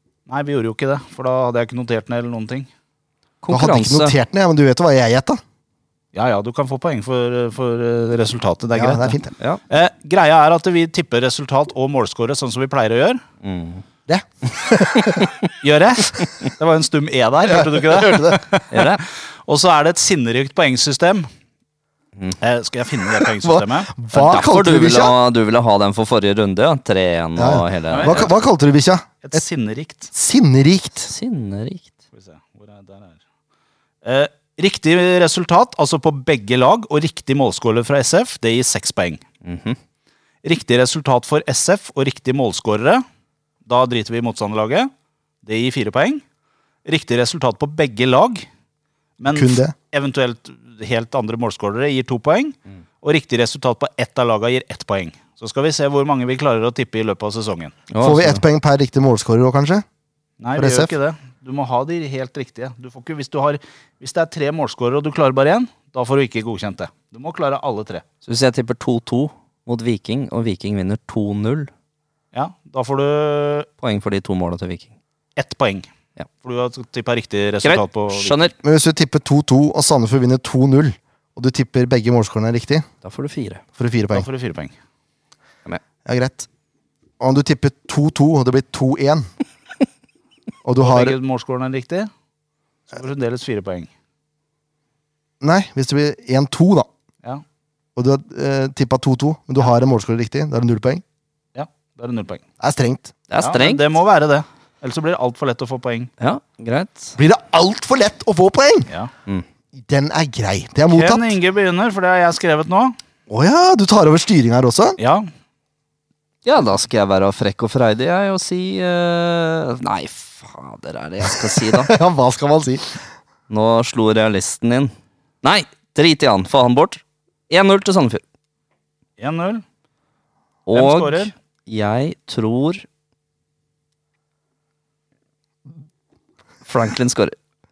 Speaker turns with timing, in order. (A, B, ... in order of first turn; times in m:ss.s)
0:00.3-0:02.7 A
0:03.4-0:04.2 B
0:03.5-0:05.4 C
0:06.1-0:09.2 A
0:08.8-0:09.3 C
0:09.7-0:13.2 A
0:13.4-0:13.8 B
0:14.1-0:15.3 C
0:14.8-0:15.5 B
0:15.6-0:21.3 A
0:17.5-0:18.4 C
0:18.7-0:19.0 B
0:22.4-0:24.0 A
0:23.4-0:25.2 C
0:24.1-0:28.3 B
0:27.4-0:29.4 C
0:27.9-0:28.3 A
0:29.2-0:30.1 A
0:30.1-0:31.1 C
0:31.0-0:32.0 B
0:32.1-0:33.2 A
0:34.0-0:39.2 A
0:39.4-0:39.8 B
0:40.4-0:43.0 A
0:43.7-0:44.9 A
0:45.4-0:46.2 A
0:46.8-0:48.5 A
0:49.2-0:57.8 A
0:49.3-0:49.7 C
0:57.9-0:58.4 B
0:58.0-0:59.8 C
1:00.4-1:08.0 A
1:00.6-1:00.9 C
1:08.3-1:11.7 B
1:12.3-1:13.7 A
1:13.8-1:14.9 B
1:15.4-1:15.9 A
1:16.4-1:18.4 A
1:17.6-1:18.6 B
1:18.6-1:22.9 C
1:23.0-1:23.6 B
1:23.8-1:24.3 C
1:24.1-1:24.7 A
1:26.0-1:26.5 C
1:27.2-1:29.3 C
1:30.6-1:31.2 C
1:30.8-1:32.1 A
1:32.9-1:33.9 A
1:35.4-1:36.9 C
1:38.0-1:41.0 C
1:41.6-1:42.4 A
1:42.6-1:43.1 C
1:43.3-1:43.8 B
1:43.4-1:46.1 A
1:46.2-1:47.2 B
1:47.2-1:48.9 C
1:49.8-1:51.4 C
1:50.9-1:53.0 A
1:53.3-1:55.0 C
1:55.0-1:55.3 A
1:56.4-2:01.9 B
2:01.7-2:02.9 C
2:03.5-2:04.9 B
2:05.4-2:08.2 B
2:09.2-2:09.6 A
2:10.7-2:12.8 B
2:10.7-2:11.3 A
2:16.6-2:17.4 B